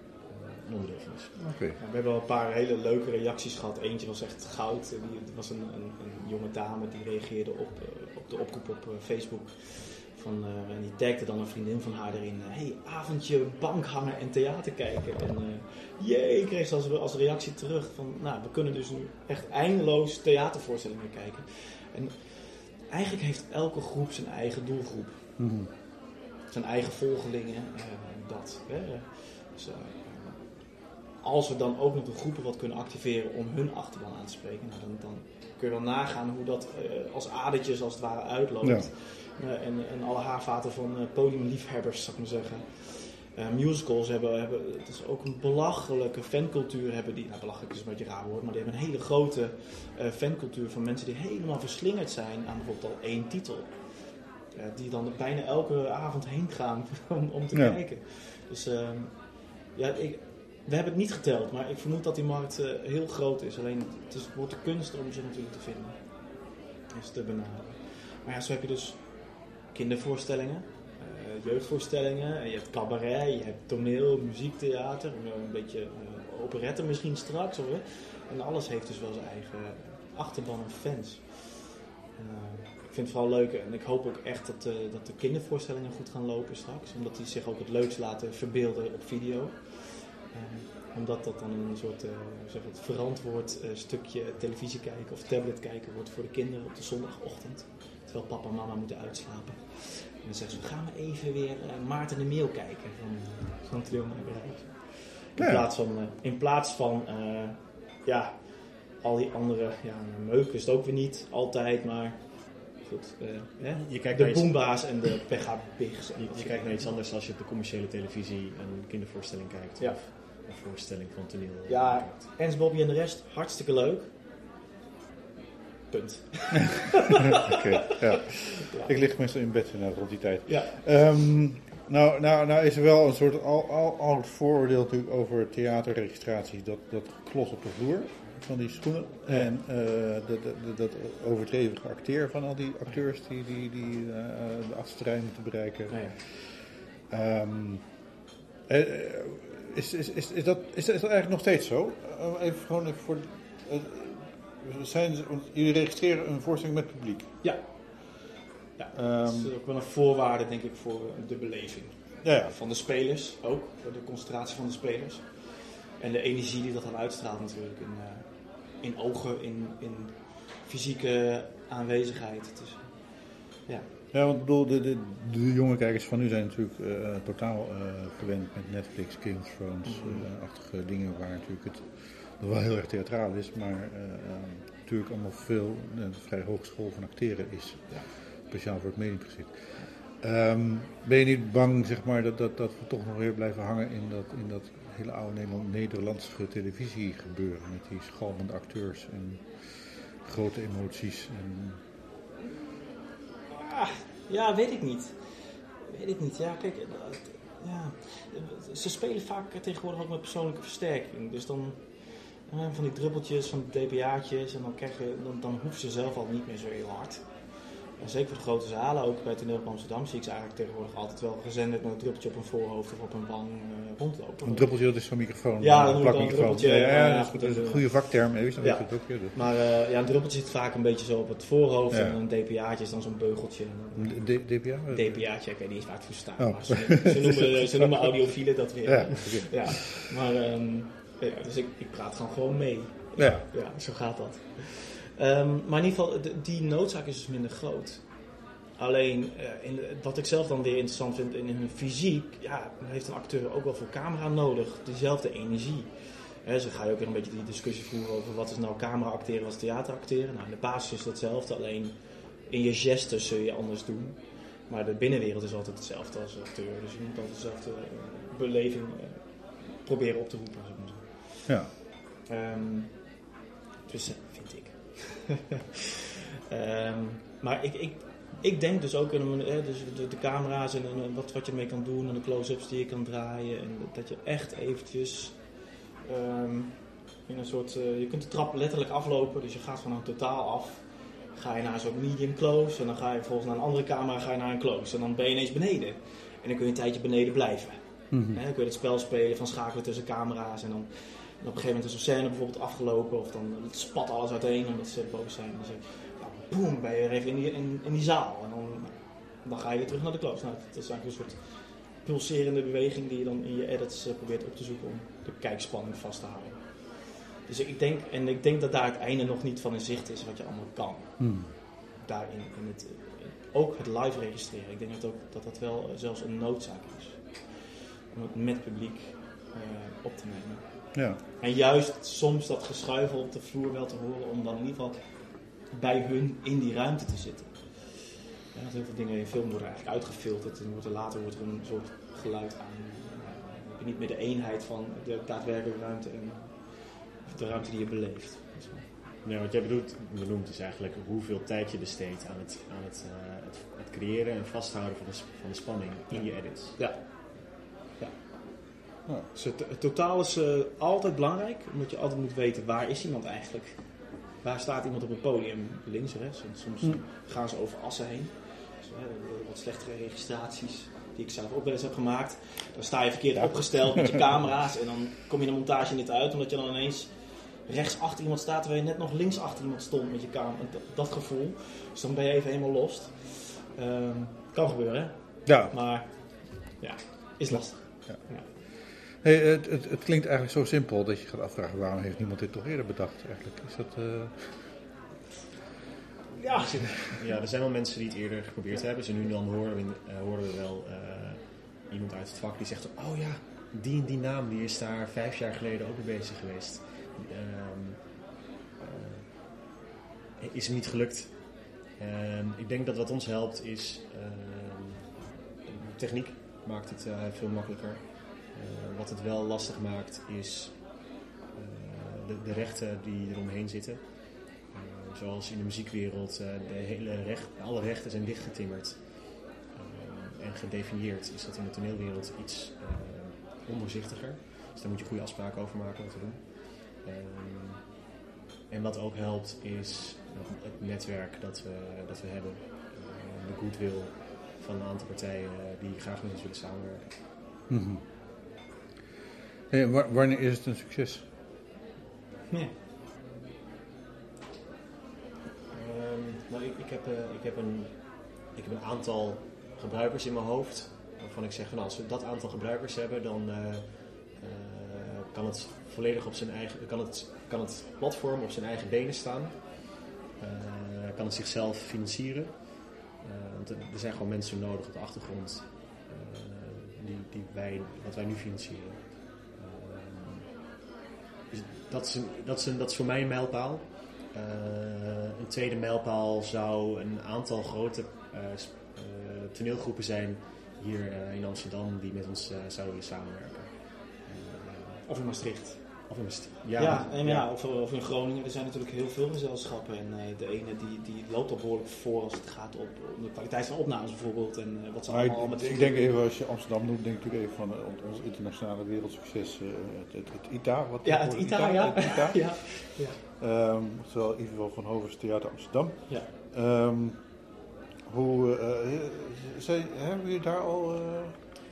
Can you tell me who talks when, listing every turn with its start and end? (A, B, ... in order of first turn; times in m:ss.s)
0:00.2-0:01.4 A
0:01.4-0:01.8 B
0:01.8-0:25.4 C
0:25.4-0:25.7 B
0:26.5-1:06.0 C
0:38.6-0:38.9 B
0:57.5-0:57.8 B
1:06.9-1:57.0 C
1:45.4-1:45.7 B
1:53.7-1:55.0 A
1:56.2-2:02.2 A
2:01.7-2:04.1 C
2:05.9-2:07.0 C
2:07.4-2:28.0 B
2:08.6-2:08.9 C
2:10.5-2:10.8 C
2:19.3-2:19.5 C
2:25.9-2:26.2 C
2:28.7-2:37.4 B
2:37.4-2:38.2 C
2:38.8-2:53.9 C
2:38.9-2:39.5 B
2:42.2-2:42.6 B
2:54.1-3:21.8 B
2:59.8-3:00.3 C
3:22.5-3:22.9 C
3:23.5-3:44.8 C
3:44.4-3:49.4 B
3:45.6-4:33.3 C
3:51.9-3:52.2 B
3:54.0-4:00.0 B
4:03.2-4:03.5 B
4:31.5-4:31.7 B
4:33.9-4:35.5 C
4:36.5-5:48.9 C
4:58.1-4:58.4 B
5:21.2-5:21.5 B
5:30.9-5:31.2 B
5:49.2-5:56.9 A
5:56.1-5:58.1 C
5:59.3-6:28.5 C
6:13.4-6:14.5 B
6:25.5-6:26.2 B
6:27.5-6:34.8 B
6:36.4-6:37.2 C
6:36.5-6:49.6 A
6:50.4-7:18.0 A
7:18.7-7:27.2 A
7:27.7-7:28.0 B
7:29.7-7:31.3 B
7:32.5-7:32.8 C
7:35.7-8:00.5 A
8:01.5-8:15.1 A
8:15.0-8:16.1 C
8:16.1-8:17.5 A
8:16.8-8:26.2 C
8:25.1-8:37.4 B
8:31.0-8:33.2 C
8:38.1-8:41.4 B